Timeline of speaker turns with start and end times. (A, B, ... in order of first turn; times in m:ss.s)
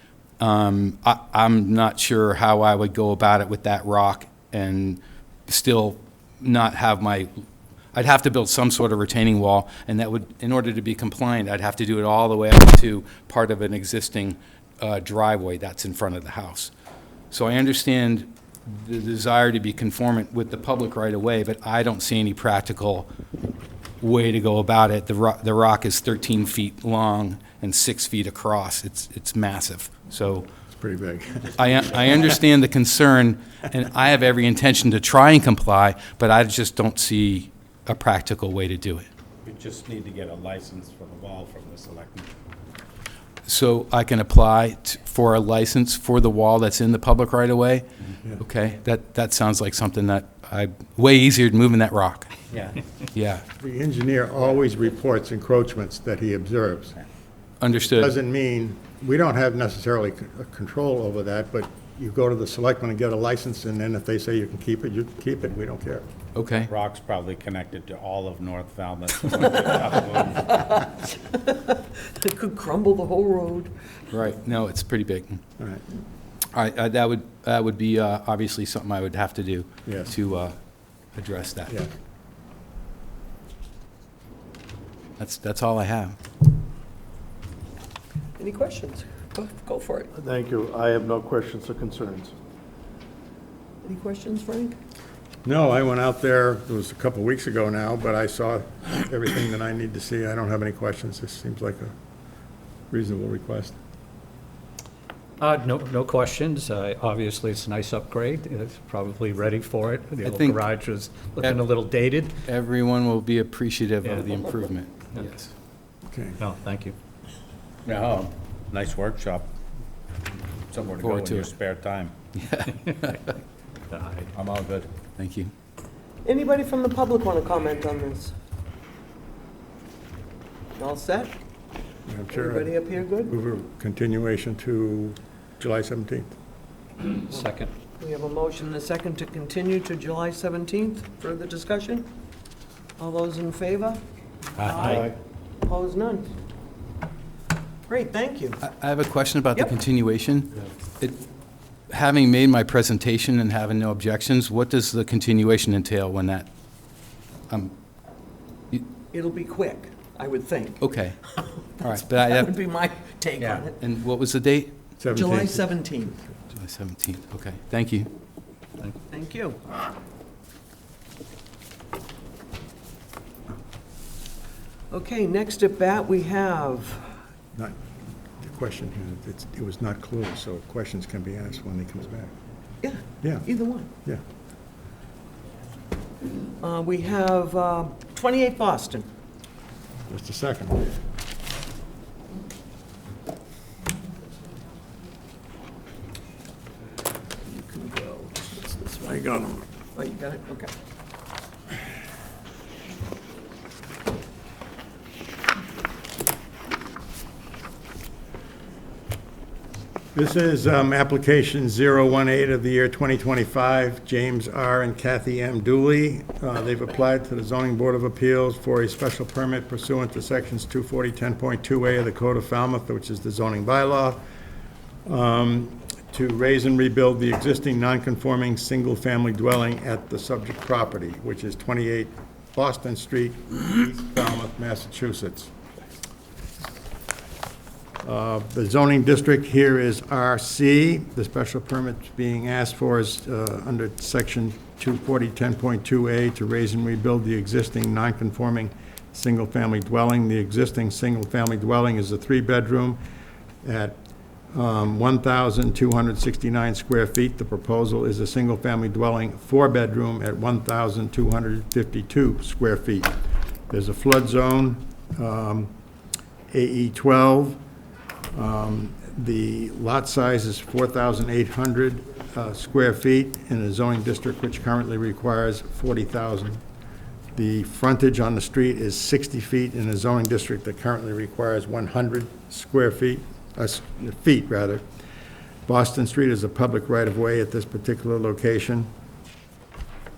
0:00.4-0:07.3 A
0:07.9-0:16.7 A
0:17.3-0:23.1 A
0:24.0-0:30.5 A
0:30.8-0:31.6 B
0:31.6-0:39.1 A
0:39.4-0:42.3 C
0:43.5-0:47.9 A
0:48.4-0:52.3 A
0:53.1-0:53.4 A
0:53.6-0:57.0 B
0:57.6-0:58.1 A
0:57.9-1:06.1 B
1:06.4-1:06.7 A
1:06.6-1:10.9 C
1:09.9-1:13.7 D
1:14.1-1:15.4 A
1:16.5-1:20.6 A
1:19.8-1:20.1 B
1:21.2-1:21.8 A
1:25.2-1:26.2 A
1:28.4-1:30.1 D
1:30.2-1:32.3 E
1:33.8-1:34.8 D
1:35.4-1:41.9 B
1:42.9-1:43.8 B
1:45.4-1:52.4 F
1:50.2-1:50.6 A
1:52.5-1:55.5 A
1:56.1-1:56.4 B
1:56.4-1:57.0 F
1:57.9-1:59.5 C
2:00.7-2:02.1 C
2:01.0-2:01.5 A
2:02.3-2:03.4 A
2:03.9-2:04.3 F
2:04.3-2:04.9 C
2:05.2-2:05.5 A
2:06.2-2:08.3 D
2:10.8-2:11.4 D
2:12.1-2:12.7 B
2:12.3-2:13.3 D
2:13.3-2:16.3 B
2:17.2-2:17.7 F
2:18.0-2:22.1 D
2:23.0-2:24.0 D
2:24.6-2:25.0 F
2:24.6-2:25.1 D
2:24.8-2:25.2 E
2:25.6-2:26.3 D
2:27.9-2:28.6 D
2:28.6-2:31.2 A
2:31.9-2:36.5 A
2:39.1-2:43.7 D
2:40.8-2:41.2 A
2:41.8-2:42.6 A
2:43.4-2:44.8 A
2:45.0-2:45.7 B
2:45.1-2:46.2 D
2:46.5-2:48.1 A
2:49.1-2:49.6 D
2:54.9-2:57.1 D
2:58.4-3:02.3 B
3:02.8-3:03.9 D
3:03.2-3:03.5 B
3:06.6-3:09.1 D
3:10.1-3:10.9 B
3:17.4-3:19.1 D
3:19.0-3:19.7 B
3:19.9-3:20.7 D
3:30.2-3:44.2 B
3:45.1-3:55.5 B
3:58.0-4:13.0 B
4:13.6-4:14.0 B
4:14.5-4:23.2 B
4:23.7-4:25.7 B
4:26.5-4:27.6 B
4:28.3-4:36.6 B
4:37.4-4:44.8 B
4:45.7-4:48.9 B